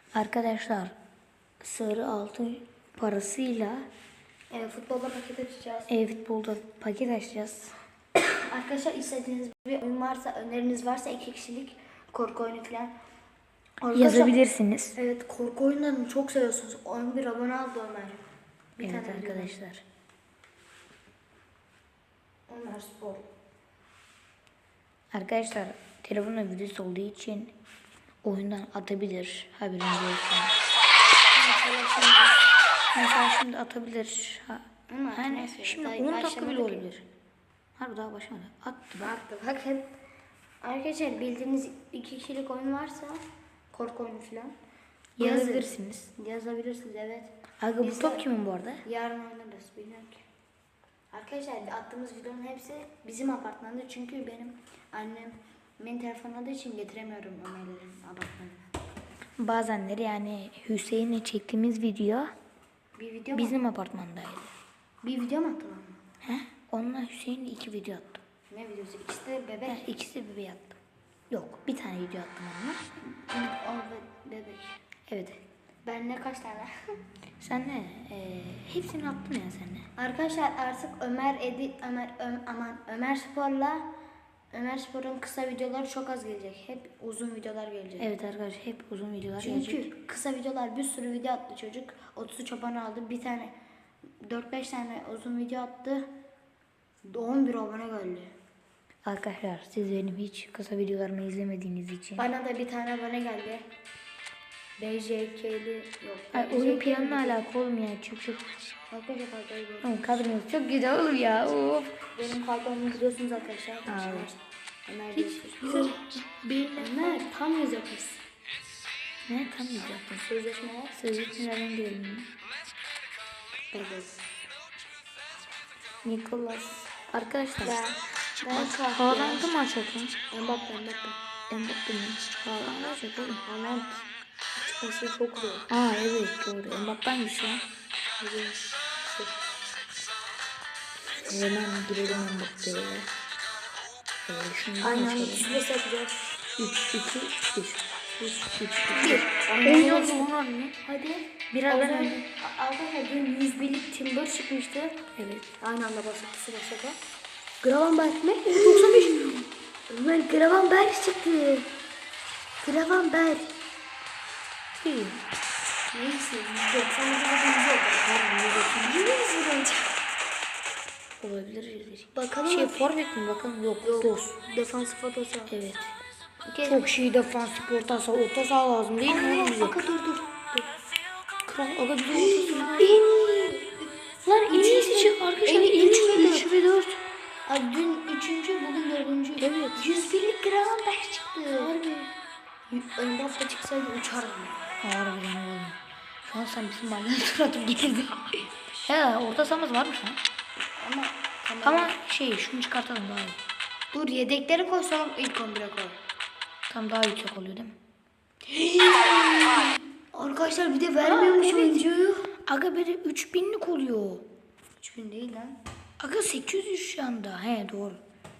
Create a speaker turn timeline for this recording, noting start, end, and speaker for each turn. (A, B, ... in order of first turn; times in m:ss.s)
0:00.2-0:00.9 A
0:01.6-0:03.9 A
0:04.5-0:06.0 B
0:05.9-0:07.7 A
0:08.5-0:13.0 B
0:13.8-0:14.4 B
0:13.9-0:15.0 A
0:15.0-0:18.2 B
0:18.8-0:19.6 B
0:18.8-0:19.8 A
0:22.5-0:23.2 B
0:25.1-0:27.5 A
0:28.2-0:30.5 A
0:31.3-0:32.4 B
0:33.0-0:37.1 A
0:34.9-0:36.9 B
0:37.8-0:39.2 A
0:39.0-0:39.9 B
0:40.6-0:44.6 B
0:45.2-0:46.1 A
0:45.2-0:48.2 B
0:47.6-0:48.8 A
0:48.8-0:50.2 B
0:51.1-0:58.6 B
0:59.4-1:02.3 A
1:03.0-1:03.6 B
1:03.4-1:04.5 A
1:05.0-1:06.0 B
1:06.2-1:08.2 A
1:08.5-1:09.9 B
1:09.7-1:10.8 A
1:11.3-1:12.8 A
1:13.2-1:14.8 B
1:15.1-1:15.4 A
1:15.8-1:16.7 B
1:17.4-1:19.9 A
1:20.0-1:23.9 B
1:24.5-1:28.1 B
1:28.0-1:29.9 A
1:29.4-1:33.5 B
1:34.2-1:36.1 B
1:37.1-1:38.3 B
1:39.0-1:42.2 A
1:42.2-1:43.6 B
1:44.8-1:47.4 B
1:46.3-1:48.5 A
1:48.9-1:50.3 B
1:49.8-1:52.0 A
1:52.2-1:56.0 B
1:53.9-1:54.3 A
1:55.2-1:57.2 A
1:56.8-1:58.2 B
1:59.3-2:00.2 A
2:00.2-2:01.0 B
2:01.0-2:02.3 A
2:03.7-2:04.2 B
2:06.0-2:07.8 A
2:07.6-2:09.5 B
2:08.5-2:10.1 A
2:10.3-2:11.2 B
2:11.5-2:13.4 A
2:13.4-2:14.1 B
2:14.6-2:15.7 B
2:15.7-2:17.6 A
2:18.2-2:19.4 B
2:21.2-2:23.1 A
2:24.3-2:25.6 A
2:24.8-2:26.2 B
2:26.6-2:30.8 A
2:28.8-2:30.3 B
2:30.8-2:35.0 B
2:31.5-2:32.2 A
2:35.2-2:35.5 A
2:35.6-2:37.0 B
2:37.6-2:39.4 B
2:38.5-2:39.5 A
2:39.9-2:41.7 B
2:42.6-2:43.6 B
2:44.8-2:45.2 A
2:45.9-2:50.0 B
2:48.0-2:49.1 A
2:51.2-2:54.4 A
2:52.2-2:52.9 B
2:53.8-2:55.5 B
2:55.5-2:55.9 A
2:56.4-2:56.9 B
2:56.7-2:59.8 A
2:59.0-3:00.7 B
3:01.5-3:03.1 A
3:02.1-3:03.8 B
3:04.2-3:07.0 A
3:04.5-3:06.5 B
3:07.5-3:11.7 B
3:09.4-3:09.8 A
3:11.6-3:12.1 A
3:12.7-3:14.6 B
3:14.8-3:20.2 A
3:20.8-3:21.9 B
3:21.6-3:23.4 A
3:23.9-3:26.0 B
3:26.7-3:27.8 A
3:28.5-3:32.3 B
3:31.0-3:34.2 A
3:34.8-3:35.6 B
3:36.0-3:38.0 A